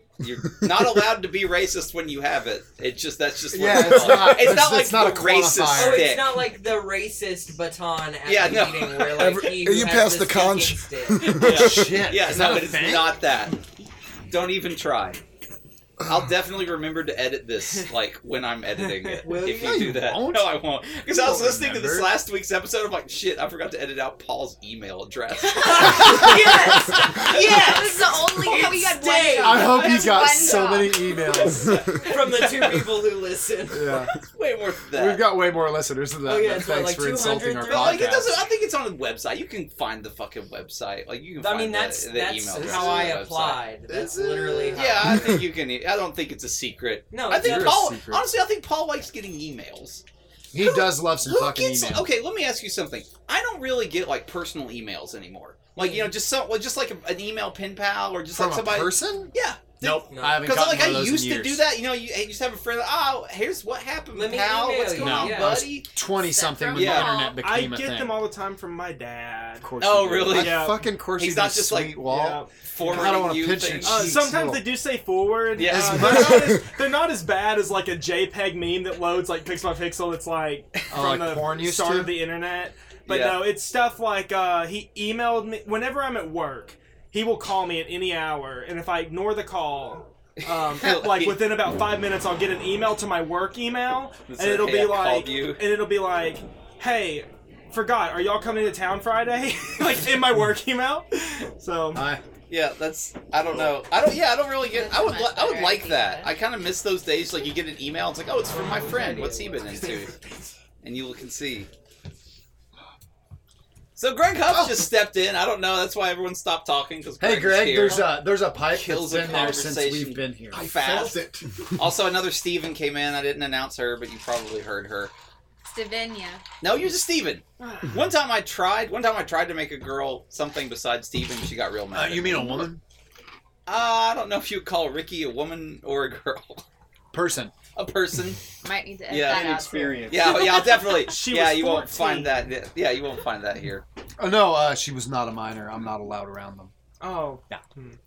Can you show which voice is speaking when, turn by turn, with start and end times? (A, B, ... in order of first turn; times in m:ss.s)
0:00.2-0:06.5 A
0:03.5-0:06.2 B
0:05.7-0:11.5 C
0:08.3-0:09.4 A
0:09.2-0:11.7 D
0:11.2-0:13.6 A
0:11.4-0:13.2 B
0:14.3-0:15.2 A
0:16.0-0:29.0 A
0:18.8-0:19.3 E
0:19.2-0:19.9 C
0:19.4-0:22.2 B
0:25.5-0:27.8 C
0:26.0-0:27.0 B
0:27.3-0:31.4 F
0:28.4-0:30.0 C
0:29.4-0:31.9 B
0:31.5-0:32.9 A
0:32.1-0:34.1 C
0:33.7-0:34.1 B
0:34.1-0:35.3 A
0:34.9-0:38.4 B
0:36.2-0:38.2 C
0:37.7-0:43.6 A
0:41.4-0:45.4 C
0:42.6-0:43.1 B
0:43.9-0:45.3 B
0:44.7-0:50.0 A
0:47.1-0:47.8 C
0:47.3-0:48.3 B
0:50.5-0:52.2 B
0:50.6-1:05.9 A
0:55.8-0:56.1 C
0:58.3-1:01.6 B
1:00.1-1:00.6 C
1:04.1-1:05.7 C
1:05.0-1:08.3 B
1:06.1-1:07.4 F
1:06.7-1:07.2 A
1:07.4-1:09.7 E
1:09.6-1:14.7 B
1:09.8-1:12.1 A
1:10.3-1:10.9 E
1:12.1-1:13.2 E
1:12.7-1:14.2 A
1:13.8-1:42.1 E
1:15.6-1:16.3 A
1:15.6-1:16.6 B
1:20.9-1:22.3 B
1:23.1-1:23.5 A
1:30.7-1:31.4 A
1:34.3-1:35.6 A
1:41.9-1:42.2 B
1:42.5-1:50.1 A
1:44.7-1:46.3 F
1:48.5-1:50.1 C
1:50.8-1:51.7 A
1:54.0-2:01.2 A
1:54.5-1:54.9 B
1:57.2-2:00.7 B
2:00.5-2:01.5 D
2:01.8-2:05.1 A
2:05.6-2:06.4 F
2:06.6-2:12.7 A
2:11.9-2:12.8 B
2:13.7-2:16.6 A
2:17.1-2:17.6 B
2:17.8-2:18.4 A
2:18.6-2:21.0 F
2:19.1-2:19.5 A
2:19.2-2:20.7 D
2:20.1-2:23.8 A
2:21.0-2:22.5 E
2:24.2-2:26.7 B
2:27.0-2:28.0 E